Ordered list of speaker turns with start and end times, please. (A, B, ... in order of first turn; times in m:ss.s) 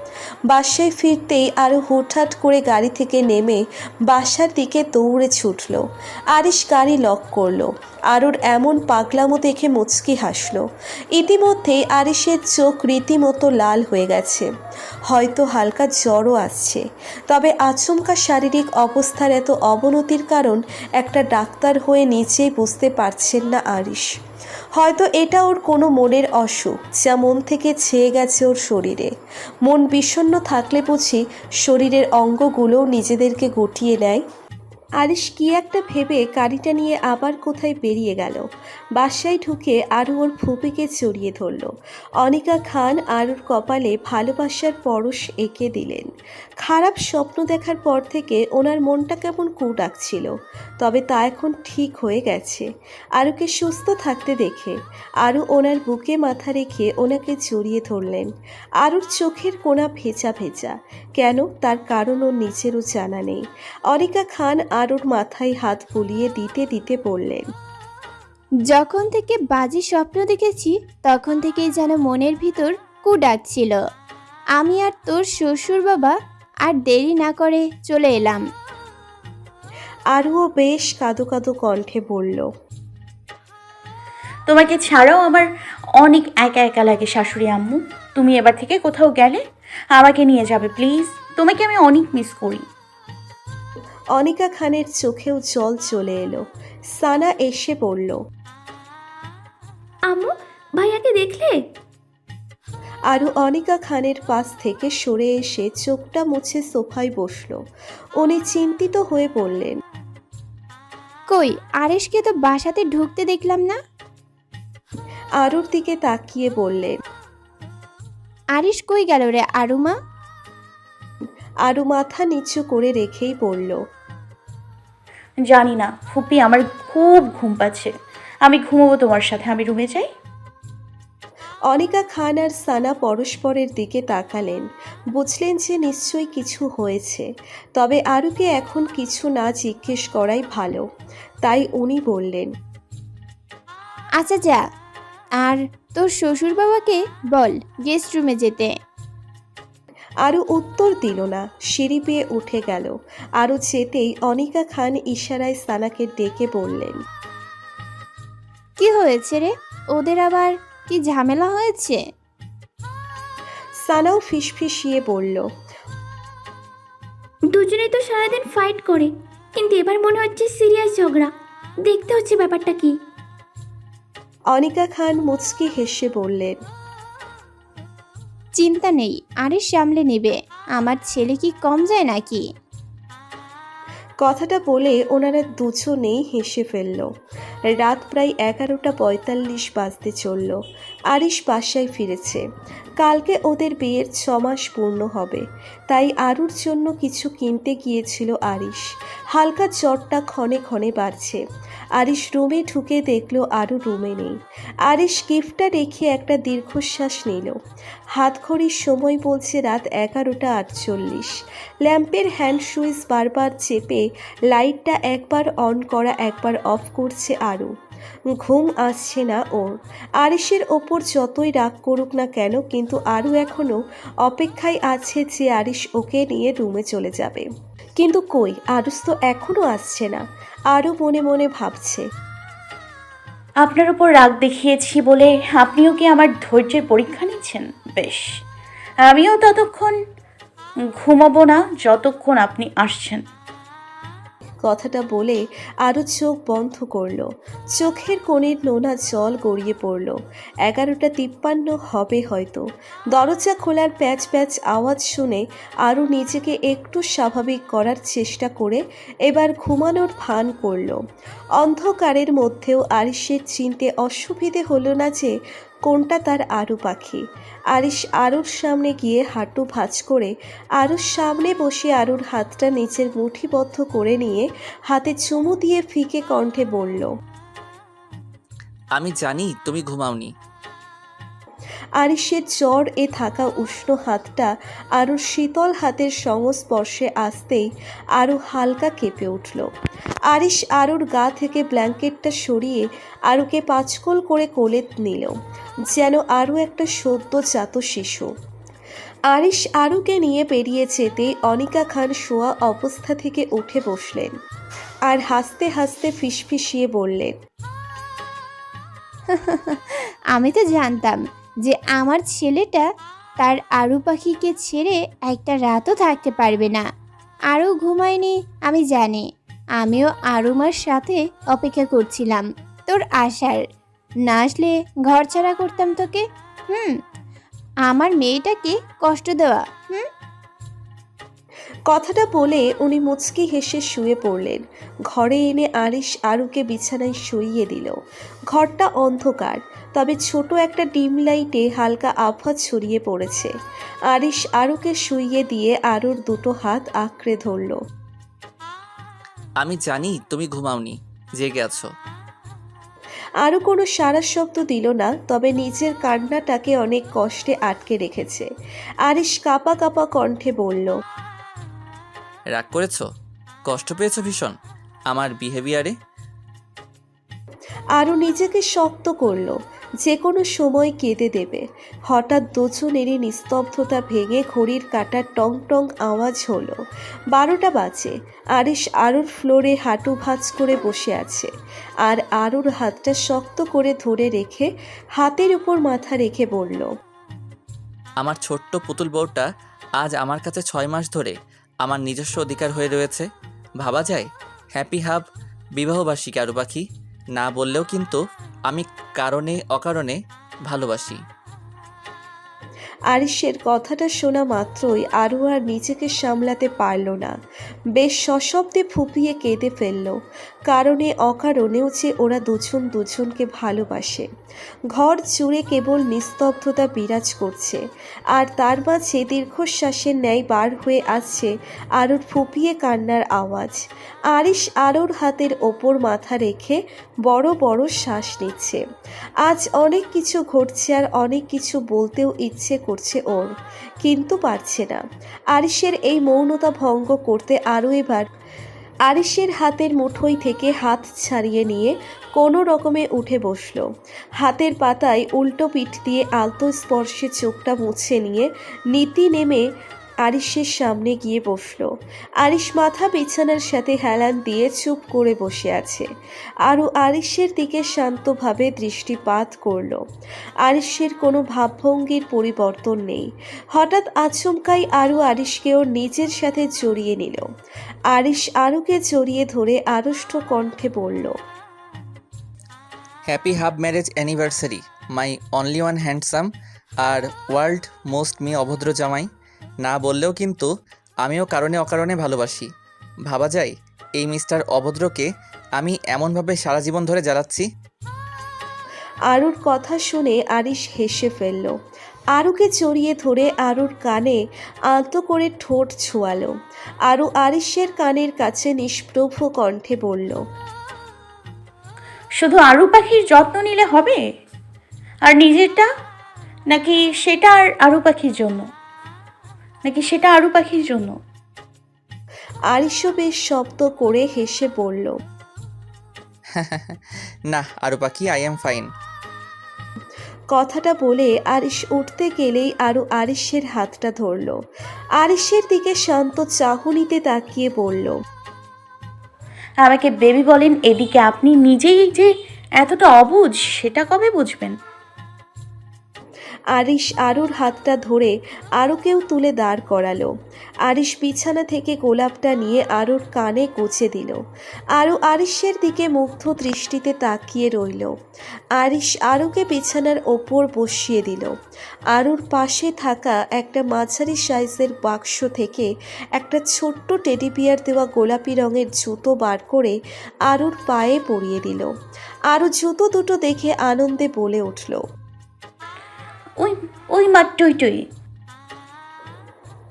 0:00.5-0:14.5 A
0:15.1-0:24.1 A
0:24.7-0:29.1 A
0:29.6-0:34.2 A
0:35.0-0:38.4 A
0:39.0-0:41.7 A
0:42.2-0:46.1 A
0:46.6-0:52.6 A
0:53.2-0:58.3 A
0:58.8-1:07.5 A
1:08.7-1:13.8 B
1:14.6-1:18.4 B
1:20.1-1:22.5 A
1:24.5-1:25.4 C
1:26.0-1:29.4 C
1:29.9-1:32.6 C
1:34.2-1:36.4 A
1:36.9-1:38.2 A
1:40.1-1:41.5 D
1:43.1-1:47.6 A
1:48.2-1:49.8 A
1:51.3-1:53.8 B
1:55.4-1:57.0 A
1:58.6-2:00.0 B
2:01.6-2:03.8 A
2:05.4-2:07.9 C
2:08.4-2:10.1 C
2:11.7-2:14.6 A
2:15.2-2:20.8 A
2:21.4-2:22.5 A
2:24.2-2:24.6 B
2:25.4-2:28.7 B
2:30.2-2:37.0 A
2:38.8-2:42.0 B
2:43.8-2:45.4 A
2:47.5-2:51.3 D
2:51.8-2:52.9 D
2:54.5-2:56.6 A
2:58.5-3:02.4 B
3:04.2-3:07.1 A
3:07.7-3:10.6 A
3:11.1-3:12.4 A
3:13.0-3:21.4 A
3:22.0-3:24.3 A
3:24.8-3:27.6 A
3:28.1-3:37.7 A
3:38.3-3:47.4 A
3:48.0-3:52.0 A
3:53.6-3:58.2 C
3:59.0-3:59.9 C
4:01.0-4:03.2 C
4:04.6-4:21.0 A
4:21.6-4:25.3 A
4:25.8-4:27.2 A
4:27.7-4:37.1 A
4:38.9-4:40.3 E
4:42.0-4:49.7 A
4:50.3-4:55.3 A
4:55.9-4:58.3 A
4:59.3-5:04.3 A
5:05.1-5:07.3 A
5:09.3-5:09.8 B
5:10.3-5:12.9 B
5:13.4-5:16.8 B
5:17.5-5:19.2 B
5:19.8-5:23.6 B
5:24.3-5:27.0 B
5:27.9-5:30.0 B
5:31.9-5:37.9 A
5:38.5-5:43.5 A
5:44.1-5:47.8 A
5:49.6-5:51.9 E
5:53.4-5:58.5 A
5:59.0-6:00.9 A
6:02.5-6:03.0 E
6:03.6-6:04.5 E
6:05.1-6:05.9 E
6:08.0-6:16.8 A
6:17.3-6:21.5 A
6:22.0-6:26.9 A
6:28.2-6:29.4 E
6:30.0-6:33.3 E
6:33.8-6:35.2 E
6:35.8-6:38.2 E
6:38.7-6:41.2 E
6:43.1-6:47.3 A
6:48.0-6:50.2 A
6:50.7-6:54.3 A
6:54.9-6:57.8 A
6:58.3-7:03.8 A
7:04.3-7:08.8 A
7:09.4-7:15.0 A
7:15.5-7:18.2 A
7:19.1-7:23.8 A
7:24.4-7:29.6 A
7:30.2-7:31.9 A
7:32.4-7:36.0 A
7:36.6-7:40.0 A
7:40.6-7:47.4 A
7:48.1-7:51.3 A
7:53.3-7:56.5 E
7:57.0-7:59.3 E
7:59.8-8:00.7 E
8:01.2-8:02.7 E
8:03.3-8:07.6 E
8:09.3-8:11.7 A
8:12.4-8:14.4 A
8:14.9-8:16.5 A
8:17.1-8:20.4 A
8:22.4-8:24.2 C
8:25.2-8:25.8 C
8:26.7-8:28.6 C
8:29.8-8:31.2 C
8:32.7-8:35.2 A
8:36.6-8:37.0 E
8:37.5-8:38.9 E
8:40.5-8:44.6 A
8:45.2-8:48.1 A
8:49.8-8:52.3 C
8:52.8-8:54.7 C
8:56.8-9:00.3 A
9:00.8-9:04.4 A
9:04.9-9:08.1 A
9:08.8-9:11.5 A
9:12.1-9:21.9 A
9:22.5-9:25.0 A
9:26.6-9:28.0 C